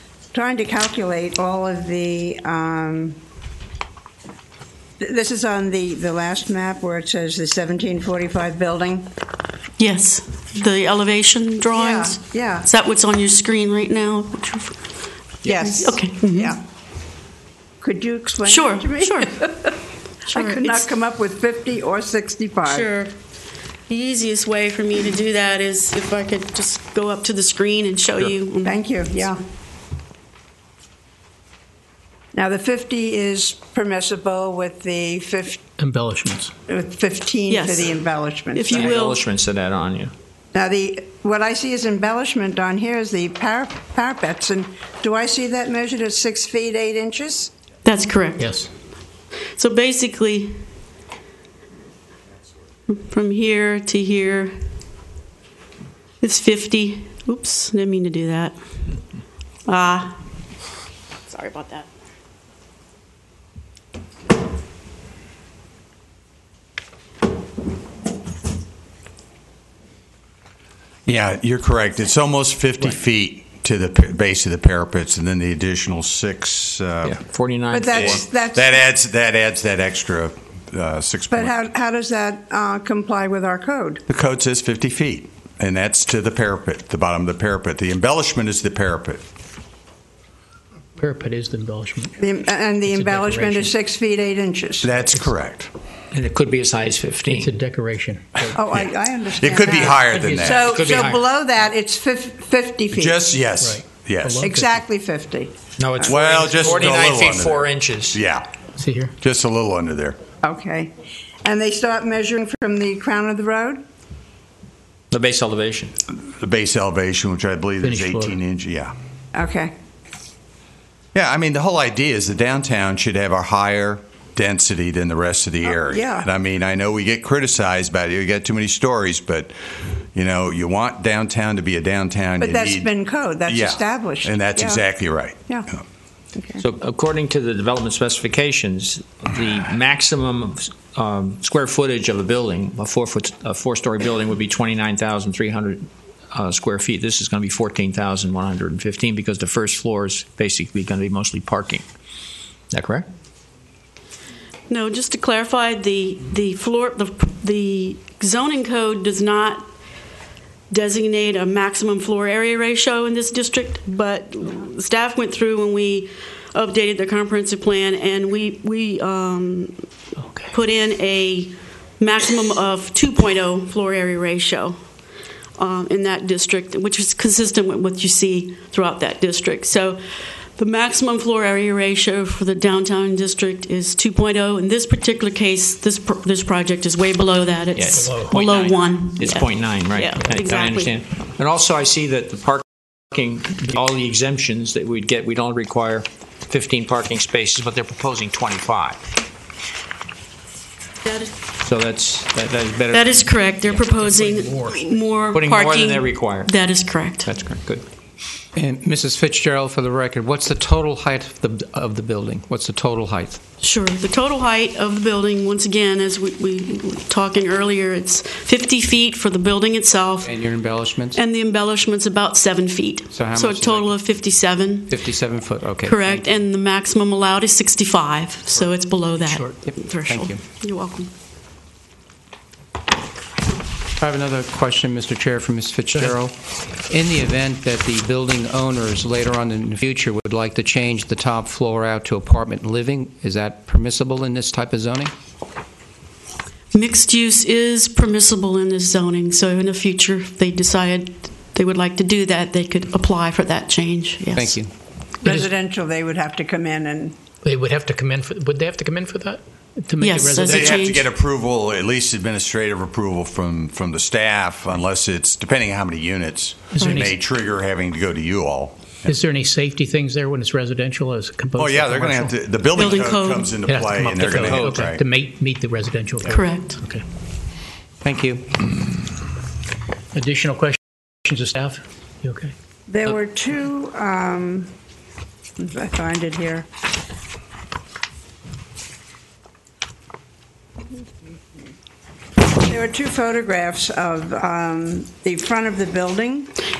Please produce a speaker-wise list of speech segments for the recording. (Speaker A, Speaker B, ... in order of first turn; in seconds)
Speaker A: 0.3-3.2, 5.0-9.1, 11.7-12.7, 15.4-16.6, 17.8-19.7, 20.3-22.9, 28.6-29.4, 32.3-35.6, 36.7-38.9, 40.5-47.5, 77.7-78.8, 81.3-84.0, 92.2-95.0, 98.5-103.2, 104.4-106.2, 110.4-113.8, 119.3-119.7, 125.6-126.3, 132.4-134.8, 136.3-136.6, 255.2-257.1, 282.9-284.7, 285.6-286.7, 292.7-296.5
Speaker B: 9.8-14.8, 15.4-16.5, 18.4-19.5, 20.3-20.9, 22.6-23.1, 23.9-29.0, 37.5-38.0, 38.5-39.2, 47.8-48.7, 49.5-50.6, 52.9-54.5, 56.2-58.5, 59.6-60.1, 61.3-61.9, 154.7-159.6, 160.7-169.7, 170.5-174.8, 175.6-191.0, 201.1-201.3, 202.9-207.3, 213.6-220.4, 221.1-225.0, 225.8-231.1, 246.7-254.6, 260.0-261.1, 272.8-273.5, 276.2-276.8
Speaker C: 35.8-36.5, 48.4-48.7, 91.0-92.1, 92.9-93.7, 97.3-98.7, 100.0-100.9, 103.6-104.8, 108.8-109.1, 117.8-118.4, 170.2-170.5, 187.9-188.3, 203.8-204.8, 229.2-229.5, 257.4-260.9, 266.7-267.1, 269.0-272.3, 273.6-277.0, 280.1-282.5
Speaker D: 38.7-40.1, 77.0-78.2, 96.1-97.5, 100.6-101.2, 105.8-108.2, 115.1-115.9, 136.6-151.8, 152.7-153.1, 187.8-199.0, 201.6-203.8, 205.3-206.5, 207.2-207.8, 274.4-274.9
Speaker E: 71.0-77.2, 77.9-81.6, 84.1-89.2, 94.8-95.7, 99.3-100.8, 102.9-104.5, 106.0-108.5, 109.2-110.2, 116.2-118.9, 121.1-132.9, 133.4-135.4, 260.4-269.1, 271.6-275.0
Speaker F: 208.5-213.4, 220.2-221.2, 223.1-224.1, 224.9-226.2, 229.7-230.4, 234.0-236.3, 236.9-245.1, 254.3-254.7, 278.0-278.7